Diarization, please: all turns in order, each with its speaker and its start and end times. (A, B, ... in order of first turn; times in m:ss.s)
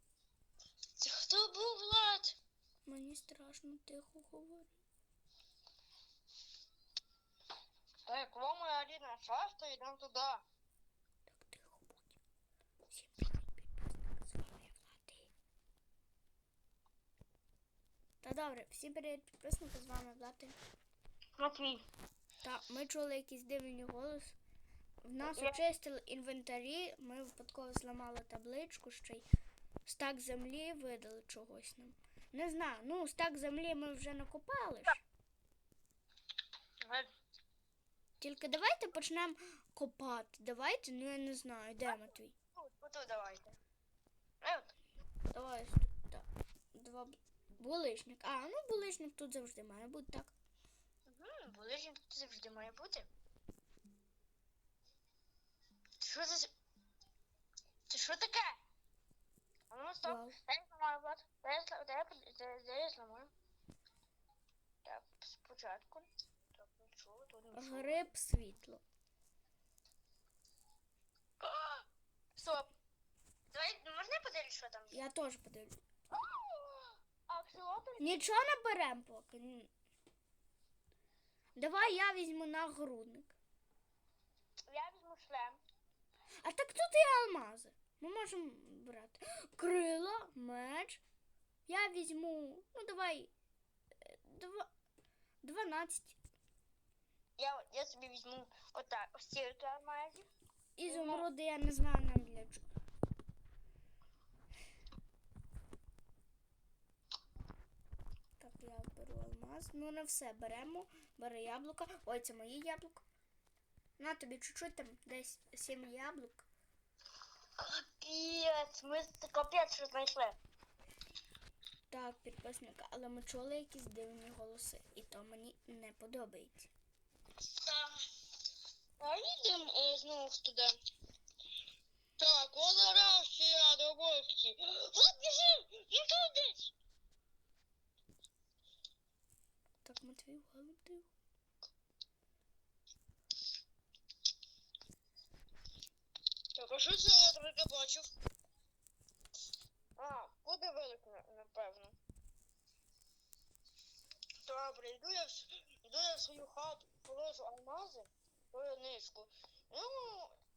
0:01.0-0:02.4 A
0:02.9-0:04.8 B
0:08.1-0:10.4 A
0:11.3-0:12.2 B
0:12.9-0:15.3 B
0:18.2-0:20.6 B
0:21.4-0:21.9 A
0:22.4-0:24.4 B
0:25.0-0:29.3 B
0:25.2-0:25.6 A
0:29.8-0:35.0 B
0:38.2-0:42.3 B
0:41.8-0:43.6 A
0:44.4-0:44.7 A
0:45.3-0:50.3 B
0:51.1-0:53.1 A
0:56.0-0:56.5 A
0:57.9-0:58.6 A
0:59.7-1:03.3 A
1:00.0-1:00.4 B
1:04.8-1:08.0 A
1:07.5-1:08.8 B
1:11.4-1:11.8 A
1:12.4-1:12.7 A
1:13.5-1:15.0 A
1:14.9-1:15.8 B
1:16.2-1:18.3 A
1:18.0-1:19.7 B
1:21.6-1:23.4 B
1:24.7-1:25.6 A
1:26.4-1:31.0 B
1:31.7-1:33.3 B
1:34.0-1:34.7 B
1:35.4-1:36.2 B
1:37.4-1:40.3 A
1:40.8-1:42.6 B
1:40.9-1:41.3 A
1:48.4-1:53.1 B
1:54.0-1:56.5 B
1:57.6-2:00.4 A
2:01.9-2:06.7 B
2:07.4-2:08.0 A
2:09.0-2:10.7 A
2:12.2-2:16.7 A
2:19.8-2:21.1 B
2:26.6-2:28.1 A
2:30.0-2:32.0 A
2:34.4-2:40.3 A